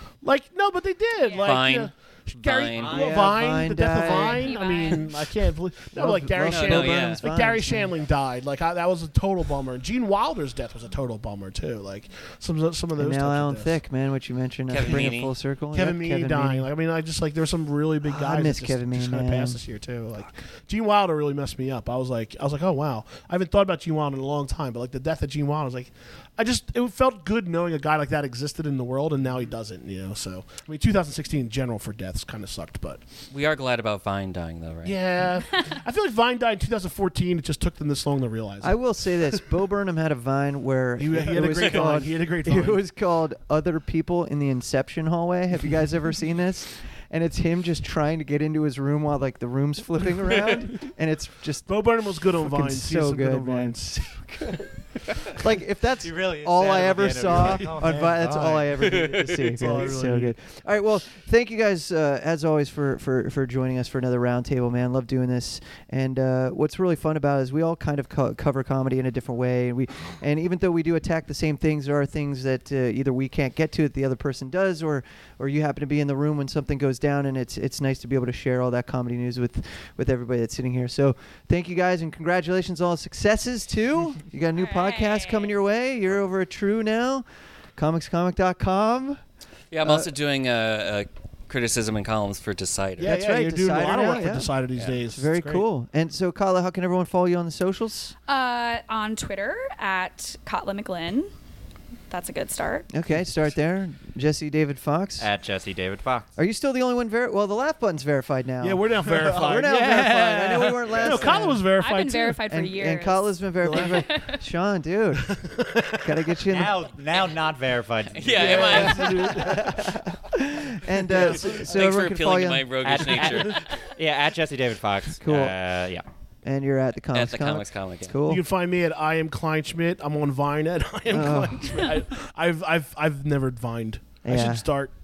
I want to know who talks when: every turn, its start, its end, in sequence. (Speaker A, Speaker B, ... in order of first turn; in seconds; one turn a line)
Speaker A: 0.2-13.8
Speaker B: 1.2-1.6
Speaker C: 1.4-3.0
Speaker D: 2.8-3.3
Speaker E: 2.9-4.6
Speaker B: 4.1-5.1
Speaker E: 5.9-7.9
Speaker C: 6.4-7.3
Speaker E: 12.9-16.7
Speaker C: 14.7-15.3
Speaker A: 14.9-15.1
Speaker A: 15.7-33.0
Speaker E: 18.0-19.6
Speaker C: 33.3-35.0
Speaker A: 34.9-39.4
Speaker E: 38.6-54.7
Speaker A: 41.0-42.8
Speaker C: 41.3-41.9
Speaker A: 51.7-53.9
Speaker E: 55.2-89.2
Speaker D: 56.0-58.7
Speaker A: 57.3-58.7
Speaker C: 58.8-59.5
Speaker A: 59.4-60.3
Speaker B: 84.6-85.5
Speaker C: 89.7-93.2
Speaker E: 89.8-90.1
Speaker A: 93.0-95.7
Speaker E: 93.0-98.2
Speaker B: 98.3-101.3
Speaker B: 102.1-102.9
Speaker E: 102.9-105.3
Speaker D: 105.2-106.3
Speaker E: 106.4-111.7
Speaker A: 108.6-112.5
Speaker D: 109.2-111.4
Speaker B: 111.8-114.4
Speaker E: 112.5-115.4
Speaker A: 115.2-116.4
Speaker E: 115.9-116.8
Speaker D: 116.5-119.1
Speaker C: 118.1-119.5
Speaker A: 118.3-119.8
Speaker E: 118.4-123.3
Speaker A: 121.1-122.0
Speaker C: 121.2-123.8
Speaker D: 122.8-126.0
Speaker E: 125.2-125.6
Speaker E: 126.4-128.4
Speaker C: 127.1-128.2
Speaker A: 128.3-134.9
Speaker E: 131.1-131.9
Speaker E: 134.2-134.7